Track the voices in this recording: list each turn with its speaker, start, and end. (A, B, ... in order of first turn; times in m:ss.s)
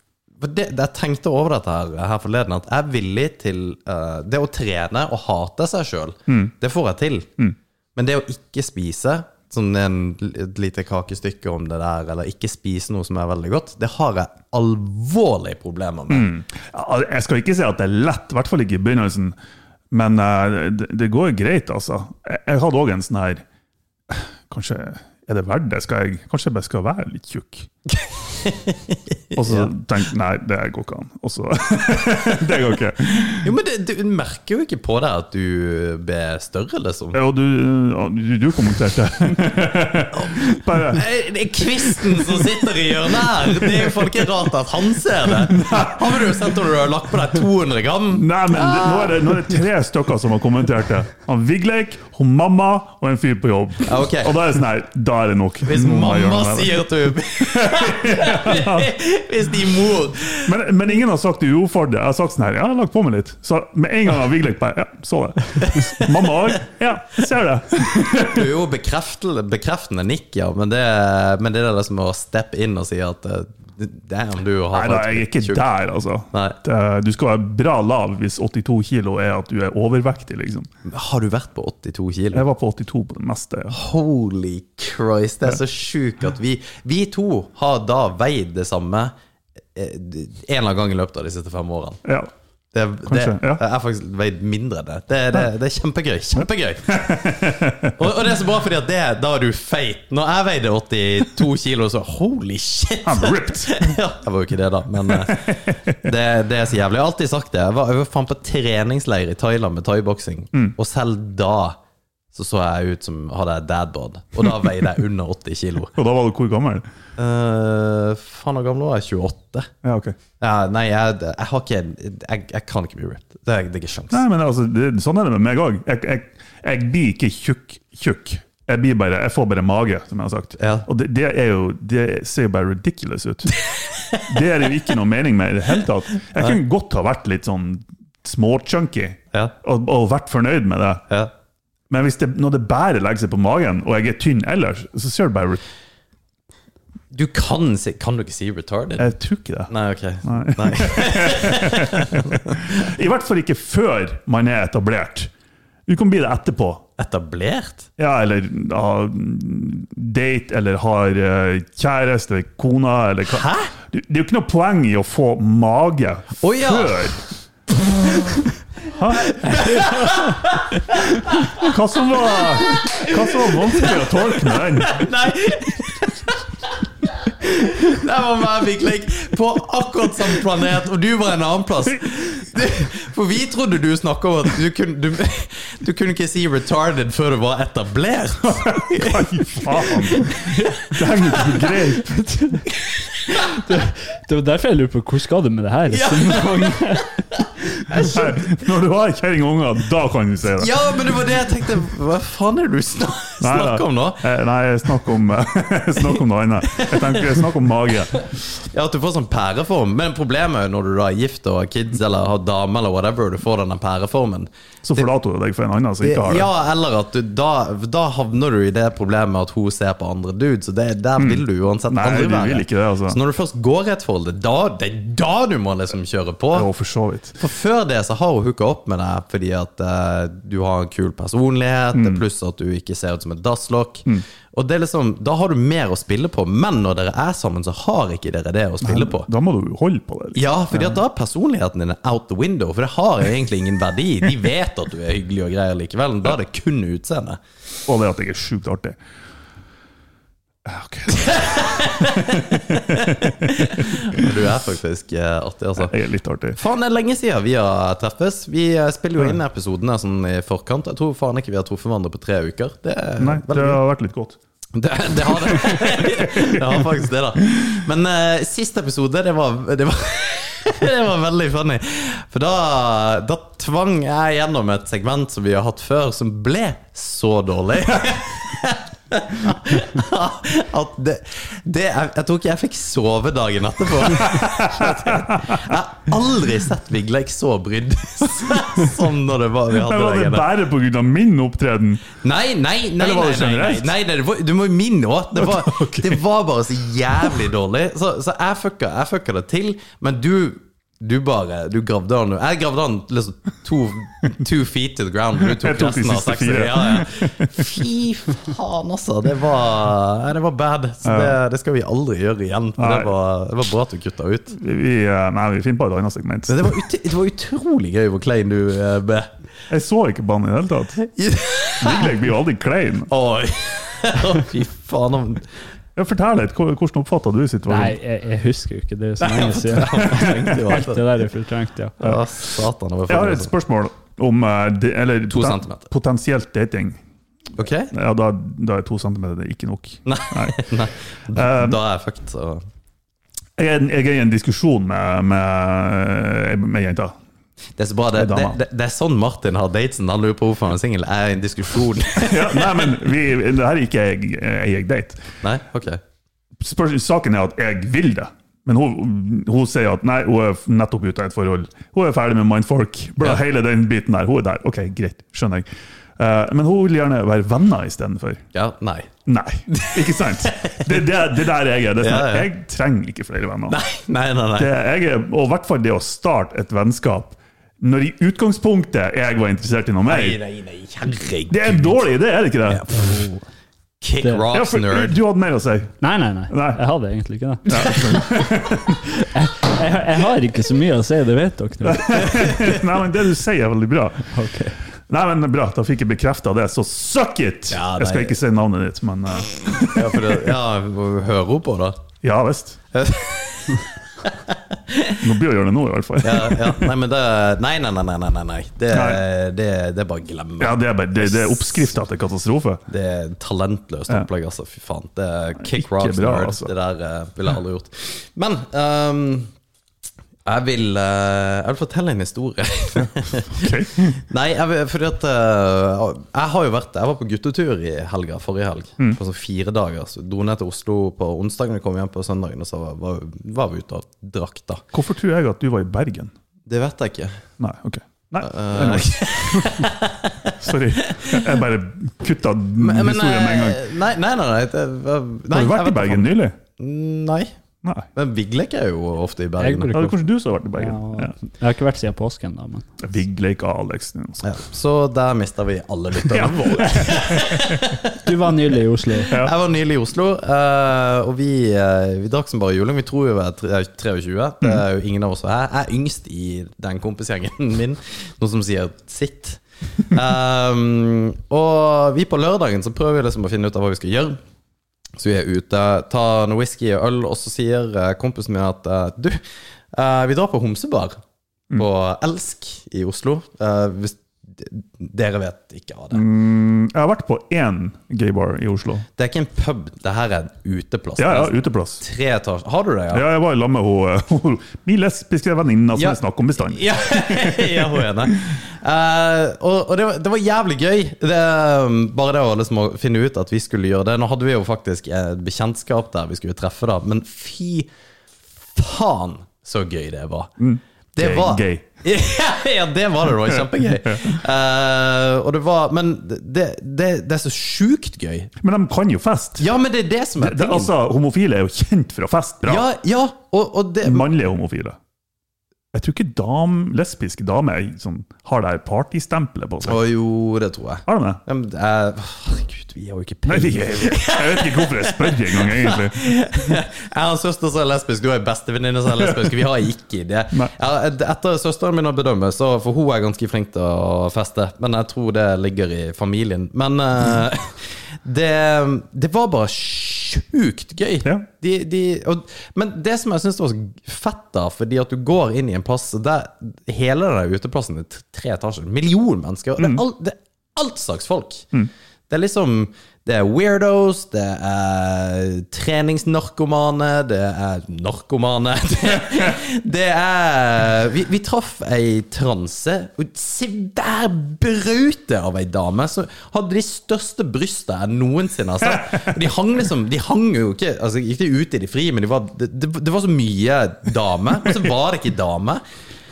0:00.4-0:07.3 A
0:06.3-0:06.5 B
0:07.9-0:16.3 A
0:16.1-0:19.3 B
0:19.9-0:23.4 B
0:24.1-0:27.7 B
0:27.9-0:29.7 A
0:29.3-0:33.5 B
0:33.4-0:37.2 A
0:37.1-0:41.1 B
0:40.1-0:49.6 A
0:41.8-0:42.6 B
0:43.5-0:44.2 B
0:45.3-0:46.5 B
0:48.1-0:58.9 B
0:53.8-0:54.3 A
0:55.6-1:00.5 A
1:00.4-1:08.5 B
1:05.6-1:06.6 A
1:08.1-1:15.6 A
1:14.7-1:20.7 B
1:16.3-1:16.6 A
1:20.8-1:22.4 A
1:22.3-1:23.8 B
1:23.7-1:29.1 A
1:29.7-1:32.0 A
1:32.0-1:32.3 B
1:32.7-1:37.0 A
1:33.1-1:33.6 B
1:36.4-1:37.9 B
1:38.0-1:51.8 A
1:43.0-1:43.9 B
1:45.1-1:45.7 B
1:52.3-1:55.9 A
1:55.9-1:56.8 B
1:57.2-1:59.7 A
1:59.8-2:00.2 B
2:00.4-2:04.2 A
2:04.1-2:13.5 B
2:10.6-2:10.9 A
2:13.7-2:14.2 A
2:14.2-2:21.0 B
2:21.9-2:25.6 B
2:27.1-2:29.1 A
2:29.0-2:29.7 B
2:29.7-2:32.7 A
2:30.2-2:35.3 B
2:35.9-2:36.8 B
2:37.0-2:37.9 A
2:38.0-2:47.2 B
2:43.3-2:43.7 A
2:46.4-2:47.1 A
2:48.9-2:50.4 B
2:49.3-2:51.7 A
2:51.5-2:55.1 B
2:52.3-2:56.4 A
2:57.1-3:11.4 A
3:08.5-3:12.3 B
3:13.5-3:17.1 C
3:15.9-3:16.8 A
3:17.9-3:18.3 A
3:18.0-3:20.7 B
3:20.6-3:24.2 A
3:23.4-3:28.2 B
3:26.7-3:27.4 A
3:28.7-3:35.0 A
3:34.8-3:36.5 B
3:36.0-3:46.7 A
3:41.2-3:43.2 B
3:46.5-3:47.4 B
3:47.4-3:59.3 A
3:51.9-3:52.2 B
3:58.8-4:01.0 B
4:00.3-4:07.4 A
4:07.9-4:09.0 B
4:10.6-4:14.3 B
4:11.3-4:15.9 A
4:15.8-4:16.6 B
4:16.5-4:23.8 A
4:23.2-4:24.4 B
4:24.7-4:50.5 A
4:25.2-4:26.8 B
4:44.1-4:45.7 B
4:49.7-4:52.2 B
4:52.2-5:14.6 A
4:53.0-4:54.0 B
4:55.4-4:56.2 B
5:05.4-5:07.7 B
5:11.0-5:11.4 B
5:12.8-5:13.1 B
5:14.6-5:16.8 B
5:16.5-5:19.3 A
5:19.7-5:21.0 B
5:21.0-5:22.1 A
5:21.8-5:23.1 B
5:23.1-5:25.5 A
5:26.0-5:28.0 B
5:27.6-5:32.0 C
5:29.2-5:31.3 A
5:30.2-5:30.6 B
5:32.0-5:33.5 A
5:33.1-5:37.0 B
5:35.3-5:35.9 A
5:37.6-5:37.9 A
5:37.9-5:40.6 B
5:40.0-5:42.6 A
5:41.3-5:41.8 B
5:43.6-5:47.2 B
5:47.8-5:52.9 A
5:48.1-5:48.6 B
5:52.2-5:55.2 B
5:55.4-5:56.0 A
5:56.6-6:05.7 B
6:06.2-6:08.4 B
6:08.5-6:09.1 A
6:09.2-6:13.8 B
6:09.7-6:11.2 A
6:12.0-6:12.5 A
6:13.7-6:14.7 A
6:14.6-6:20.4 B
6:20.1-6:22.0 A
6:21.5-6:22.8 B
6:22.7-6:23.2 A
6:24.0-6:25.1 A
6:24.5-6:25.9 B
6:26.0-6:28.4 C
6:26.5-6:26.8 B
6:27.7-6:29.0 B
6:29.1-6:32.5 C
6:31.8-6:34.3 B
6:34.3-6:34.8 C
6:35.1-6:40.5 B
6:37.7-6:38.4 A
6:39.8-6:42.0 A
6:42.2-6:42.8 B
6:42.9-6:45.2 A
6:45.2-6:46.9 B
6:46.2-6:52.0 A
6:48.9-6:49.2 B
6:50.6-6:52.8 B
6:52.9-6:59.5 A
6:55.6-6:56.7 B
7:00.4-7:14.8 A
7:03.5-7:04.2 B
7:14.9-7:16.3 B
7:16.7-7:17.4 A
7:17.6-7:19.9 B
7:18.4-7:21.4 A
7:20.5-7:23.8 B
7:22.8-7:27.5 A
7:25.5-7:26.6 B
7:27.8-7:28.1 B
7:28.2-7:29.9 A
7:29.6-7:30.2 C
7:29.9-7:31.4 B
7:30.7-7:32.9 C
7:33.0-7:34.5 B
7:34.4-7:38.2 A
7:36.2-7:37.8 B
7:38.2-7:39.3 C
7:39.3-7:54.4 A
7:55.2-7:59.4 A
7:59.9-8:01.2 A
8:01.7-8:06.2 A
8:06.1-8:09.0 B
8:09.2-8:13.2 A
8:11.2-8:12.0 B
8:13.1-8:18.4 B
8:15.9-8:27.9 A
8:28.7-8:30.5 A
8:30.6-8:31.8 B
8:31.2-8:38.5 A
8:33.4-8:34.4 B
8:38.6-8:39.7 B
8:39.6-8:40.9 A
8:40.4-8:42.8 B
8:42.6-8:44.3 A
8:44.0-8:45.0 B
8:45.9-8:50.0 B
8:49.8-9:21.7 A
8:51.1-8:51.4 B
8:53.5-8:56.6 B
9:22.3-9:45.8 A
9:39.0-9:39.3 B